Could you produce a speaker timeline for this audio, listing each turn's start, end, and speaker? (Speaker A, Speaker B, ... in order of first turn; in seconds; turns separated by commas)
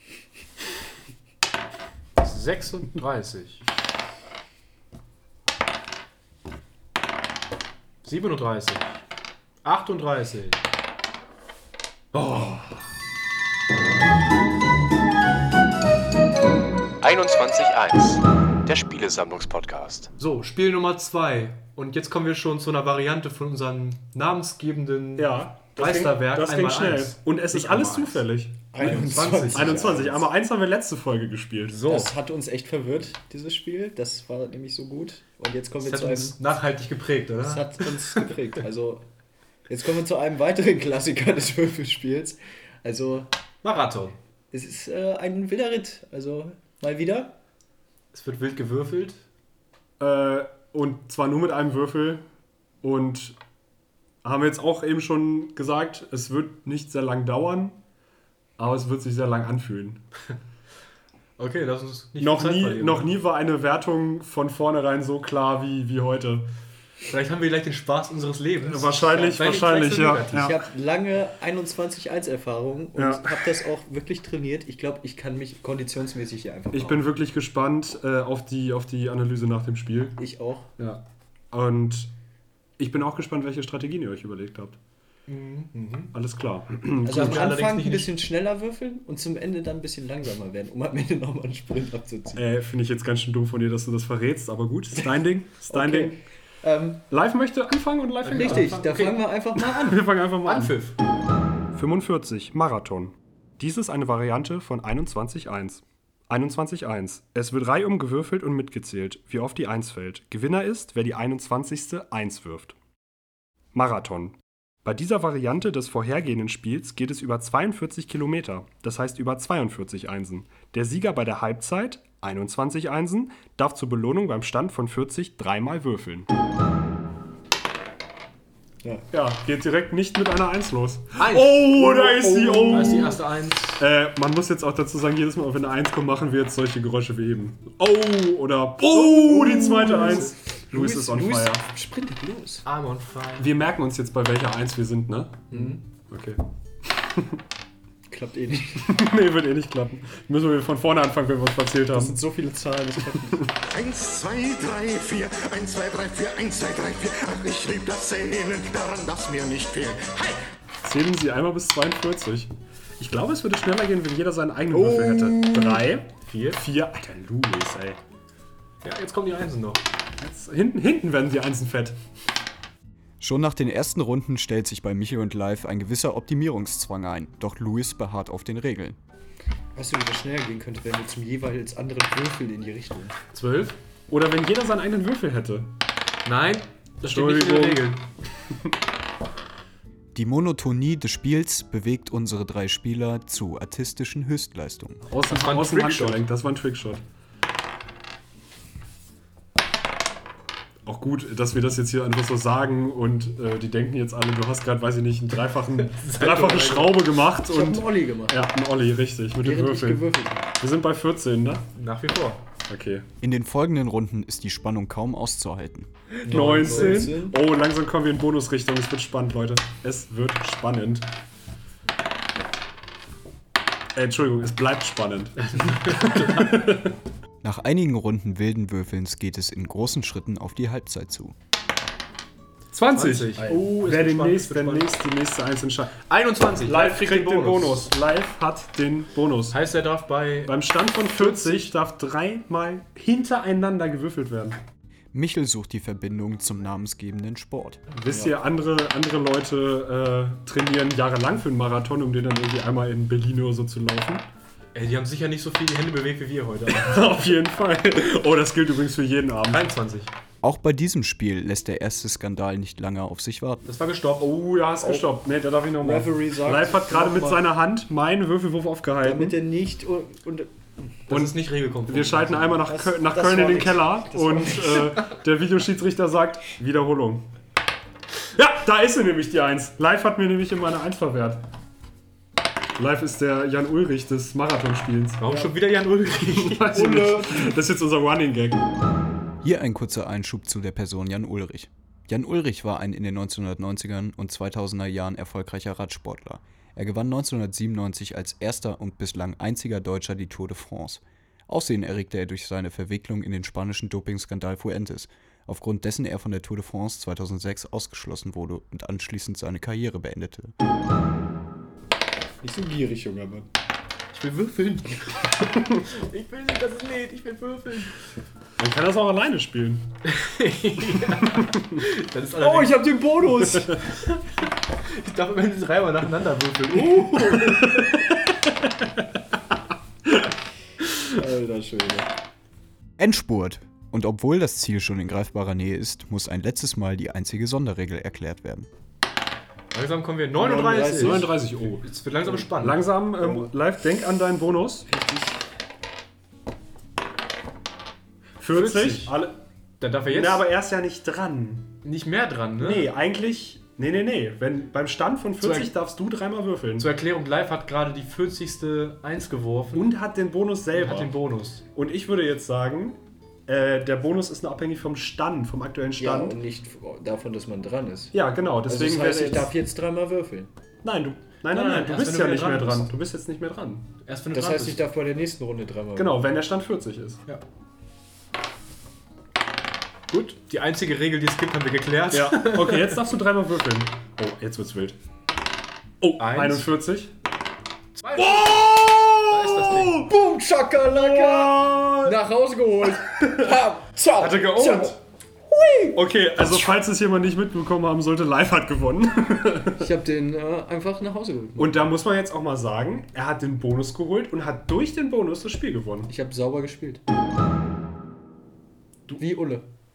Speaker A: 2.2-3.6, Speaker A: 8.0-9.0, Speaker A: 9.6-10.6, Speaker A: 12.2-12.6, Speaker B: 12.2-12.5, Speaker C: 17.0-20.1, Speaker A: 20.2-30.1, Speaker B: 25.2-31.8, Speaker D: 28.7-30.3, Speaker A: 31.7-32.1, Speaker D: 31.9-36.4, Speaker A: 35.8-38.3, Speaker D: 37.4-39.0, Speaker D: 39.7-43.3, Speaker A: 43.6-44.2, Speaker D: 44.5-47.4, Speaker A: 48.1-49.2, Speaker B: 50.0-52.2, Speaker B: 52.8-53.4, Speaker B: 54.2-57.8, Speaker B: 58.6-60.0, Speaker A: 61.4-63.1, Speaker B: 62.2-66.5, Speaker A: 67.1-70.5, Speaker B: 68.6-70.6, Speaker D: 70.4-77.0, Speaker B: 73.0-73.5, Speaker B: 76.7-80.2, Speaker D: 80.2-80.7, Speaker B: 80.8-82.1, Speaker B: 82.8-84.8, Speaker A: 85.3-86.1, Speaker B: 86.1-87.5, Speaker D: 87.0-92.5, Speaker A: 87.1-88.2, Speaker B: 92.4-96.2, Speaker D: 95.0-97.0, Speaker B: 97.1-98.8, Speaker A: 98.2-99.2, Speaker D: 98.3-100.0, Speaker B: 99.8-100.8, Speaker A: 100.5-101.0, Speaker B: 101.8-112.8, Speaker B: 113.7-126.3, Speaker B: 129.1-133.2, Speaker A: 131.2-131.7, Speaker D: 131.8-133.2, Speaker A: 132.7-133.8, Speaker B: 133.8-141.7, Speaker D: 138.9-142.6, Speaker A: 139.6-140.3, Speaker A: 142.6-143.6, Speaker B: 143.4-146.4, Speaker D: 145.5-145.8, Speaker B: 147.0-147.4, Speaker D: 148.1-148.9, Speaker B: 148.8-152.2, Speaker D: 151.9-153.6, Speaker E: 153.7-160.4, Speaker B: 160.8-168.0, Speaker D: 164.7-165.8, Speaker A: 166.2-166.6, Speaker A: 168.8-169.8, Speaker B: 170.2-172.0, Speaker F: 173.2-179.0, Speaker D: 179.8-183.2, Speaker A: 183.3-183.8, Speaker B: 184.1-185.7, Speaker A: 186.2-188.0, Speaker B: 187.0-188.0, Speaker F: 190.1-195.0, Speaker B: 195.1-197.0, Speaker A: 195.3-196.2, Speaker B: 200.9-210.1, Speaker A: 205.8-207.0, Speaker D: 207.4-208.5, Speaker D: 209.4-210.5, Speaker B: 210.6-211.7, Speaker A: 211.8-212.4, Speaker B: 212.7-213.1, Speaker F: 213.2-215.9, Speaker D: 216.2-217.4, Speaker A: 216.2-217.1, Speaker B: 216.3-221.1, Speaker B: 224.0-226.9, Speaker A: 225.4-226.7, Speaker F: 227.4-231.3, Speaker B: 232.7-236.0, Speaker A: 232.9-234.9, Speaker A: 236.1-237.9, Speaker B: 236.6-239.6, Speaker A: 239.5-241.7, Speaker B: 240.5-244.6, Speaker F: 245.1-247.8, Speaker B: 247.9-254.3, Speaker A: 254.7-257.3, Speaker B: 256.7-259.7, Speaker A: 259.5-260.1, Speaker F: 260.4-263.6, Speaker A: 263.6-264.4, Speaker B: 264.2-269.4, Speaker D: 264.8-265.1, Speaker D: 265.8-267.5, Speaker D: 269.0-271.1, Speaker A: 271.1-272.6, Speaker B: 271.1-277.3, Speaker D: 272.6-275.0, Speaker B: 278.4-281.4, Speaker B: 282.8-285.2, Speaker A: 285.2-286.8, Speaker B: 286.3-288.6, Speaker D: 286.7-287.4, Speaker F: 289.4-310.5, Speaker D: 312.4-313.5, Speaker A: 314.1-318.0, Speaker B: 318.6-319.9, Speaker A: 320.1-328.0, Speaker B: 321.3-321.8, Speaker D: 322.4-323.8, Speaker D: 330.9-332.1, Speaker F: 333.0-338.7, Speaker A: 339.7-342.9, Speaker D: 340.4-341.4, Speaker B: 340.9-341.9, Speaker B: 342.6-344.9, Speaker D: 343.1-343.5, Speaker D: 344.9-345.4, Speaker B: 348.4-349.4, Speaker A: 348.5-349.1, Speaker A: 349.8-350.5, Speaker B: 350.1-351.7, Speaker A: 351.8-352.9, Speaker B: 352.6-356.9, Speaker A: 355.4-355.7, Speaker A: 356.8-359.9, Speaker B: 359.7-361.1, Speaker A: 360.7-361.6, Speaker B: 361.7-366.4, Speaker D: 366.0-368.1, Speaker B: 368.1-369.5, Speaker D: 368.6-370.5, Speaker B: 370.8-373.9, Speaker A: 371.5-372.9, Speaker A: 374.0-374.9, Speaker D: 374.3-376.2, Speaker B: 375.9-377.2, Speaker A: 380.1-383.0, Speaker B: 382.1-385.0, Speaker B: 386.0-387.1, Speaker A: 386.2-386.7, Speaker A: 388.0-388.7, Speaker B: 388.2-390.1, Speaker A: 389.3-390.1, Speaker D: 389.8-396.0, Speaker B: 390.9-392.1, Speaker B: 394.2-395.0, Speaker B: 395.9-399.9, Speaker D: 399.8-401.8, Speaker B: 401.6-406.1, Speaker D: 406.1-407.0, Speaker D: 409.2-409.7